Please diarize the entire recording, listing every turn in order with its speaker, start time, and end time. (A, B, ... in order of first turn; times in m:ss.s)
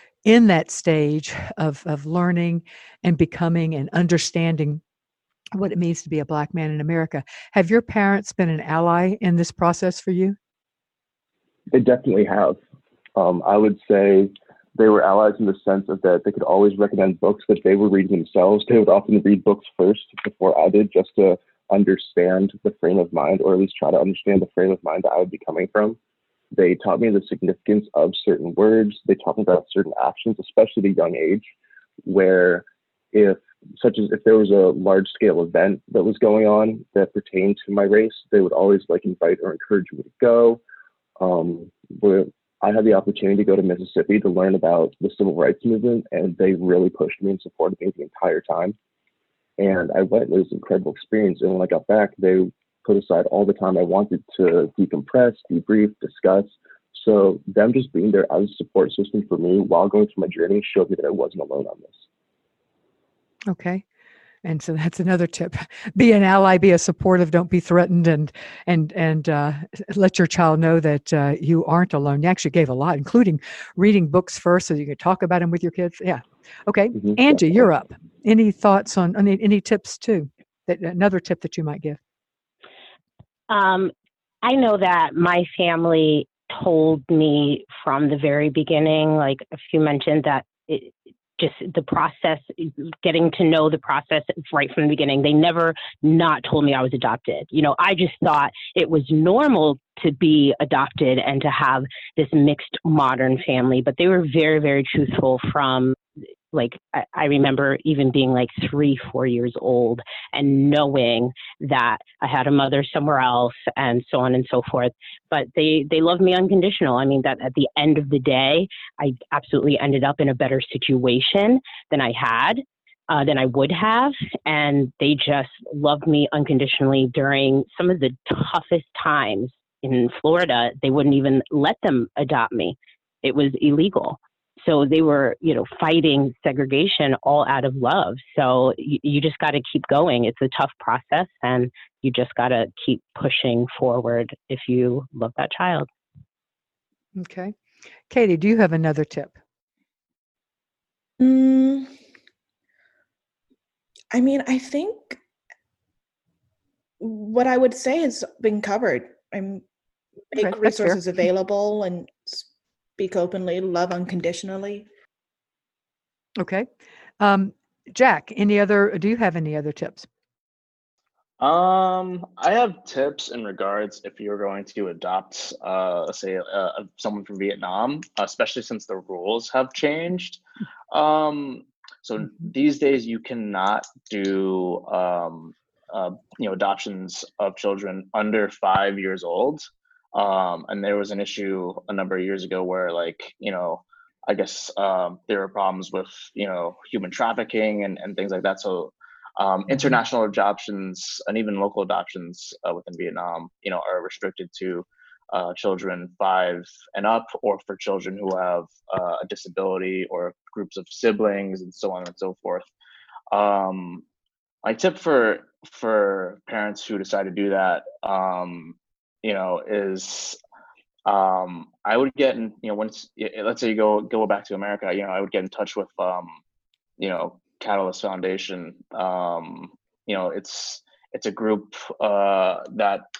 0:00.2-0:04.8 A
0:05.5-0:10.4 A
0:11.7-0:12.6 B
0:13.2-0:26.0 B
0:26.5-0:31.5 B
0:32.0-0:40.6 B
0:41.2-0:48.7 B
0:49.6-1:02.0 B
1:03.5-1:03.8 A
1:04.4-1:22.0 A
1:23.5-1:23.9 C
1:24.4-1:46.0 C
1:46.5-2:25.9 C
2:27.1-2:27.5 A
2:28.1-2:29.4 A
2:31.2-2:31.9 D
2:34.1-2:35.2 D
2:37.0-2:39.6 D
2:40.3-2:42.4 D
2:40.3-2:41.0 A
2:43.0-2:44.9 D
2:46.4-2:46.7 A
2:47.2-2:50.1 A
2:51.4-3:32.7 E
3:33.3-3:34.0 E
3:34.6-3:40.4 E
3:41.0-3:46.4 E
3:47.0-3:53.0 E